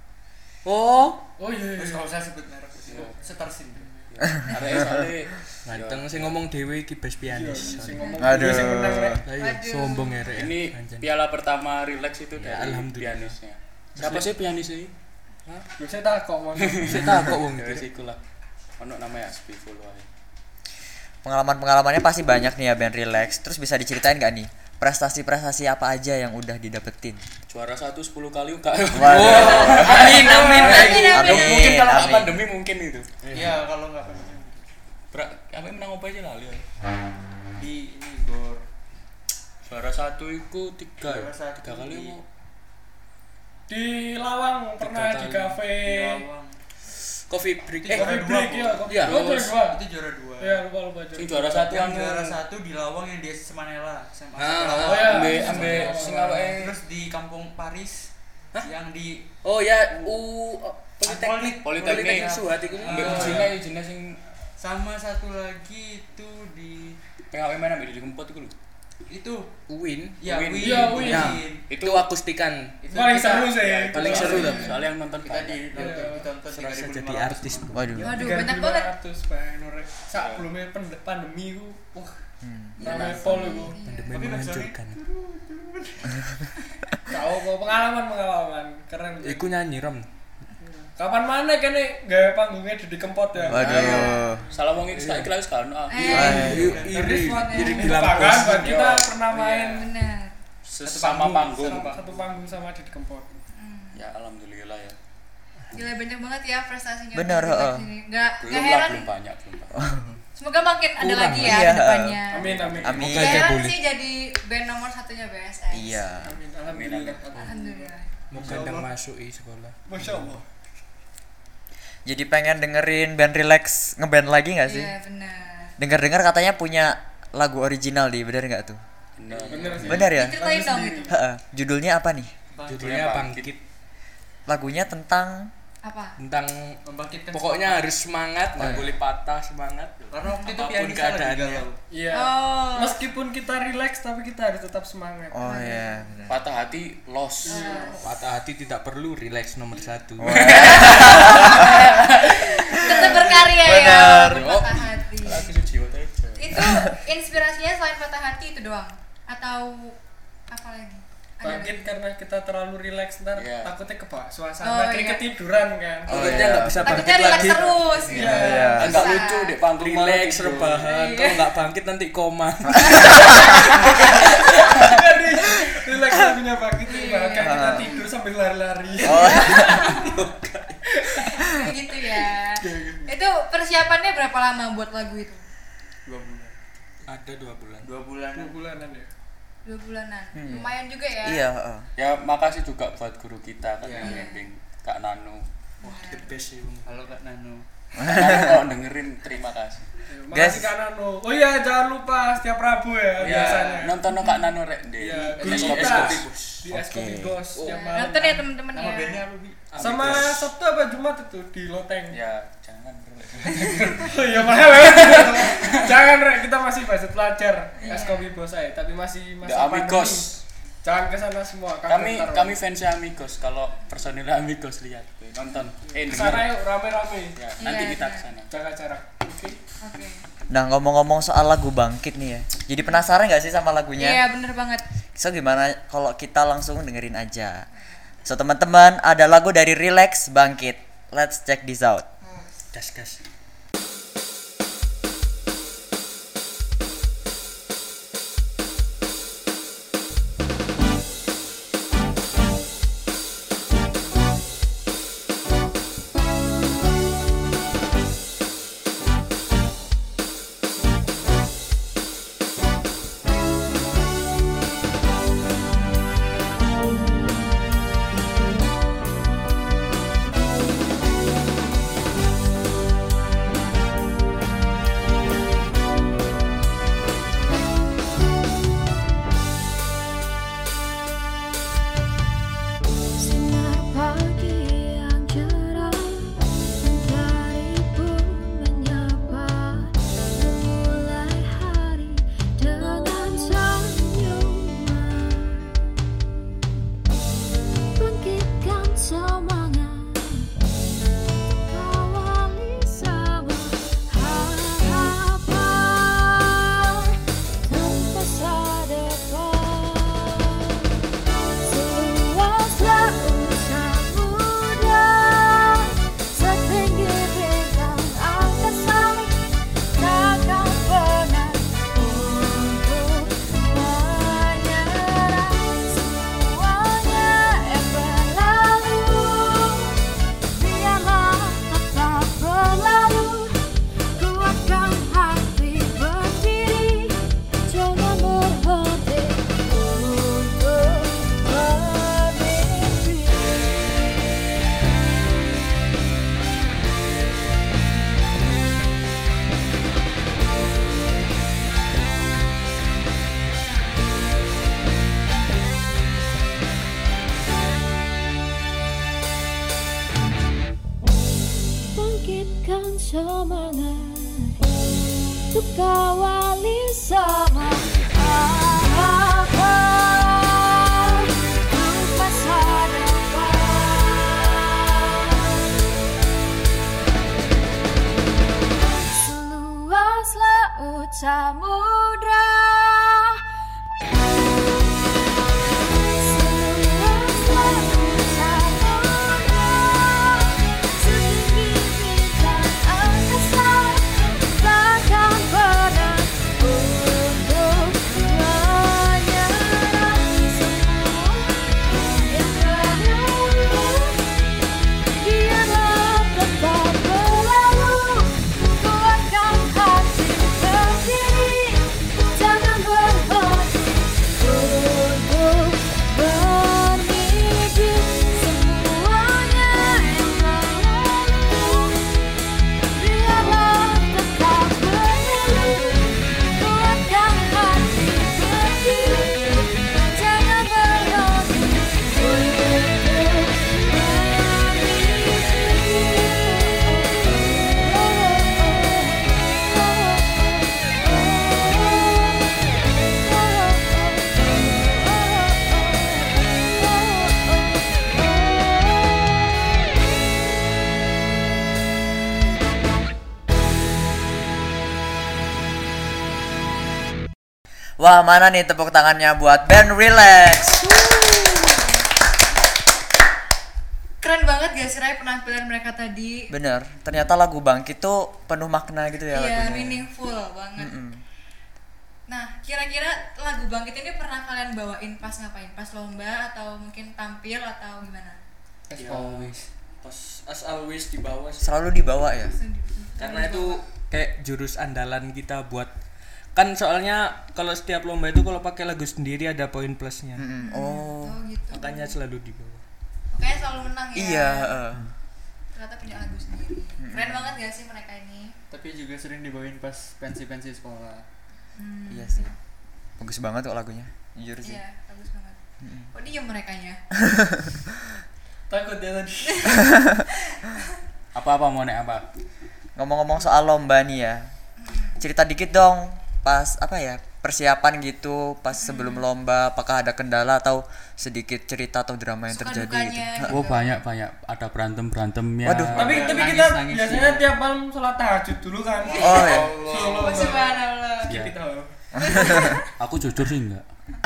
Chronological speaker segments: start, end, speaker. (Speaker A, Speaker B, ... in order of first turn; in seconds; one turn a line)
Speaker A: 0.7-1.2
Speaker B: 1.4-2.1
Speaker C: 1.5-4.0
Speaker D: 2.9-3.1
Speaker D: 4.1-6.4
Speaker A: 5.7-8.0
Speaker B: 7.3-9.2
Speaker E: 8.0-8.4
Speaker F: 8.2-9.2
Speaker A: 9.2-11.1
Speaker E: 9.4-10.4
Speaker D: 10.3-14.9
Speaker A: 12.4-13.4
Speaker A: 14.0-14.3
Speaker B: 15.8-17.0
Speaker D: 16.6-18.2
Speaker A: 16.8-17.9
Speaker D: 18.8-20.1
Speaker F: 21.2-27.2
Speaker D: 27.5-33.1
Speaker F: 28.9-29.8
Speaker A: 29.0-31.3
Speaker E: 30.2-31.6
Speaker B: 30.5-30.9
Speaker F: 31.1-32.4
Speaker A: 33.2-33.6
Speaker C: 33.3-34.7
Speaker D: 35.1-36.6
Speaker C: 37.6-38.7
Speaker D: 39.7-42.2
Speaker C: 41.0-42.2
Speaker B: 43.7-46.2
Speaker A: 44.8-45.6
Speaker C: 45.8-46.6
Speaker A: 47.3-48.1
Speaker C: 47.9-49.0
Speaker B: 47.9-49.8
Speaker A: 48.9-49.2
Speaker D: 48.9-49.5
Speaker C: 49.6-50.7
Speaker B: 50.4-51.7
Speaker D: 51.1-52.4
Speaker C: 51.6-59.3
Speaker A: 54.4-55.7
Speaker B: 54.8-56.5
Speaker D: 54.8-56.7
Speaker A: 59.4-63.5
Speaker C: 59.9-60.2
Speaker C: 61.0-63.5
Speaker D: 61.6-64.2
Speaker C: 64.6-67.0
Speaker D: 67.3-68.5
Speaker C: 69.1-69.5
Speaker A: 69.7-70.2
Speaker C: 70.2-71.7
Speaker D: 70.2-72.1
Speaker B: 70.6-71.4
Speaker A: 70.9-72.8
Speaker C: 72.8-78.0
Speaker B: 72.9-74.8
Speaker D: 73.5-75.9
Speaker A: 73.9-74.7
Speaker B: 75.8-76.3
Speaker A: 75.9-78.3
Speaker F: 77.7-78.2
Speaker B: 78.0-82.2
Speaker E: 78.0-78.9
Speaker D: 80.1-80.5
Speaker F: 82.4-82.8
Speaker B: 82.8-83.8
Speaker D: 82.8-83.5
Speaker E: 83.2-84.3
Speaker A: 83.8-85.0
Speaker C: 84.1-86.4
Speaker B: 87.1-89.4
Speaker A: 89.2-90.1
Speaker B: 90.7-94.6
Speaker F: 93.5-94.5
Speaker D: 93.5-96.7
Speaker E: 93.7-94.3
Speaker A: 95.0-95.3
Speaker E: 95.9-96.7
Speaker A: 96.1-98.8
Speaker F: 96.1-96.8
Speaker C: 96.4-97.2
Speaker B: 96.8-99.8
Speaker E: 97.2-98.0
Speaker D: 98.6-99.1
Speaker C: 98.7-99.9
Speaker E: 99.7-100.3
Speaker D: 100.7-101.9
Speaker C: 100.8-102.3
Speaker B: 101.7-103.3
Speaker E: 103.5-104.0
Speaker D: 104.0-105.0
Speaker E: 105.7-109.1
Speaker F: 107.1-107.9
Speaker D: 108.4-109.8
Speaker F: 109.7-110.2
Speaker E: 110.4-112.5
Speaker A: 111.0-111.7
Speaker F: 111.4-112.2
Speaker B: 112.3-113.2
Speaker D: 112.4-113.2
Speaker F: 112.8-113.5
Speaker A: 112.9-113.8
Speaker E: 113.2-116.0
Speaker F: 115.7-116.3
Speaker B: 116.2-118.9
Speaker D: 116.7-117.4
Speaker E: 117.4-118.1
Speaker A: 118.3-119.8
Speaker C: 118.3-118.9
Speaker B: 119.9-120.4
Speaker F: 122.1-124.9
Speaker E: 124.7-125.7
Speaker F: 125.8-128.8
Speaker D: 129.2-130.1
Speaker B: 129.5-131.1
Speaker F: 129.8-130.4
Speaker E: 130.0-131.2
Speaker F: 131.1-132.3
Speaker C: 132.5-132.8
Speaker A: 132.7-133.6
Speaker D: 132.8-133.5
Speaker F: 134.5-135.5
Speaker E: 135.8-136.2
Speaker A: 136.2-141.7
Speaker C: 136.9-137.9
Speaker F: 138.6-138.9
Speaker C: 140.1-141.8
Speaker B: 141.9-145.7
Speaker E: 142.1-143.0
Speaker F: 145.3-146.4
Speaker E: 145.4-146.1
Speaker D: 146.3-147.6
Speaker B: 147.5-148.0
Speaker E: 147.5-148.1
Speaker A: 148.0-150.7
Speaker F: 150.2-151.7
Speaker D: 150.3-152.6
Speaker E: 150.5-155.5
Speaker F: 152.8-154.4
Speaker B: 152.8-153.3
Speaker D: 154.3-156.6
Speaker E: 156.4-160.0
Speaker E: 160.5-161.9
Speaker B: 161.4-166.4
Speaker D: 163.4-163.7
Speaker E: 164.6-165.2
Speaker F: 166.1-166.9
Speaker D: 166.1-167.3
Speaker A: 166.2-168.3
Speaker E: 166.8-169.6
Speaker B: 168.1-168.9
Speaker F: 168.2-169.0
Speaker D: 168.7-170.9
Speaker A: 169.7-174.7
Speaker E: 170.9-171.4
Speaker E: 172.9-173.7
Speaker B: 174.7-180.1
Speaker E: 176.9-177.9
Speaker F: 177.4-177.9
Speaker F: 179.0-179.9
Speaker E: 179.2-180.0
Speaker A: 179.7-180.8
Speaker B: 181.1-181.5
Speaker E: 181.2-185.4
Speaker B: 182.6-183.2
Speaker C: 186.1-186.6
Speaker A: 187.1-187.9
Speaker C: 187.8-188.6
Speaker B: 188.3-189.1
Speaker E: 189.7-191.4
Speaker F: 190.3-191.9
Speaker D: 192.0-195.4
Speaker C: 193.8-194.3
Speaker E: 194.0-194.4
Speaker E: 195.8-196.3
Speaker A: 195.8-197.0
Speaker C: 196.8-197.7
Speaker F: 198.0-198.6
Speaker D: 198.0-199.9
Speaker B: 200.1-204.0
Speaker F: 200.3-200.7
Speaker C: 203.2-203.9
Speaker D: 203.2-206.3
Speaker E: 204.1-204.5
Speaker A: 205.1-206.7
Speaker B: 205.1-208.5
Speaker C: 205.2-206.1
Speaker F: 206.7-207.5
Speaker E: 207.7-209.2
Speaker C: 208.7-209.9
Speaker A: 209.7-210.4
Speaker B: 209.8-212.2
Speaker D: 209.8-210.3
Speaker D: 212.1-215.9
Speaker B: 213.7-220.3
Speaker E: 217.8-218.3
Speaker D: 219.4-220.4
Speaker B: 220.8-222.6
Speaker D: 221.9-226.6
Speaker B: 225.9-227.4
Speaker D: 227.3-228.5
Speaker E: 227.6-228.3
Speaker B: 228.5-229.6
Speaker E: 229.8-230.3
Speaker F: 230.5-234.2
Speaker E: 234.0-234.8
Speaker F: 235.2-237.7
Speaker F: 238.2-242.1
Speaker E: 242.2-242.5
Speaker A: 242.7-243.2
Speaker G: 283.2-295.8
Speaker G: 298.0-300.5
Speaker G: 301.7-310.7
Speaker G: 311.6-333.6
Speaker G: 334.2-344.0
Speaker G: 361.9-364.6
Speaker G: 365.5-375.6
Speaker G: 378.8-383.4
Speaker G: 385.9-404.2
Speaker G: 405.2-422.0
Speaker G: 422.9-449.4
Speaker F: 458.0-460.8
Speaker E: 460.6-461.9
Speaker E: 464.2-466.5
Speaker F: 466.5-470.1
Speaker E: 469.3-471.0
Speaker F: 470.8-471.2
Speaker E: 472.3-478.4
Speaker C: 478.9-479.7
Speaker A: 479.0-481.8
Speaker F: 481.6-482.6
Speaker E: 482.5-483.8
Speaker A: 483.2-485.9
Speaker A: 486.5-490.5
Speaker F: 490.4-491.4
Speaker E: 490.6-492.2
Speaker A: 491.7-492.8
Speaker E: 493.3-494.8
Speaker F: 494.1-495.1
Speaker E: 495.8-498.5
Speaker F: 497.0-497.5
Speaker C: 498.7-501.3
Speaker E: 501.8-502.5
Speaker F: 502.1-502.5
Speaker F: 503.2-504.8
Speaker E: 504.6-505.6
Speaker F: 505.8-506.1
Speaker E: 506.1-507.0
Speaker F: 507.2-507.9
Speaker B: 508.7-509.5
Speaker F: 509.8-510.1
Speaker E: 510.5-510.8
Speaker D: 511.4-512.2
Speaker F: 513.0-514.5
Speaker E: 514.8-515.2
Speaker F: 515.2-523.6
Speaker E: 518.8-519.2
Speaker E: 522.5-524.0
Speaker D: 523.5-526.4
Speaker F: 525.6-526.3
Speaker B: 526.0-530.8
Speaker C: 526.0-527.5
Speaker F: 529.2-529.8
Speaker C: 529.2-530.7
Speaker E: 530.0-531.4
Speaker D: 531.3-531.6
Speaker B: 531.4-531.9
Speaker F: 532.2-532.8
Speaker E: 532.2-532.9
Speaker D: 533.0-533.8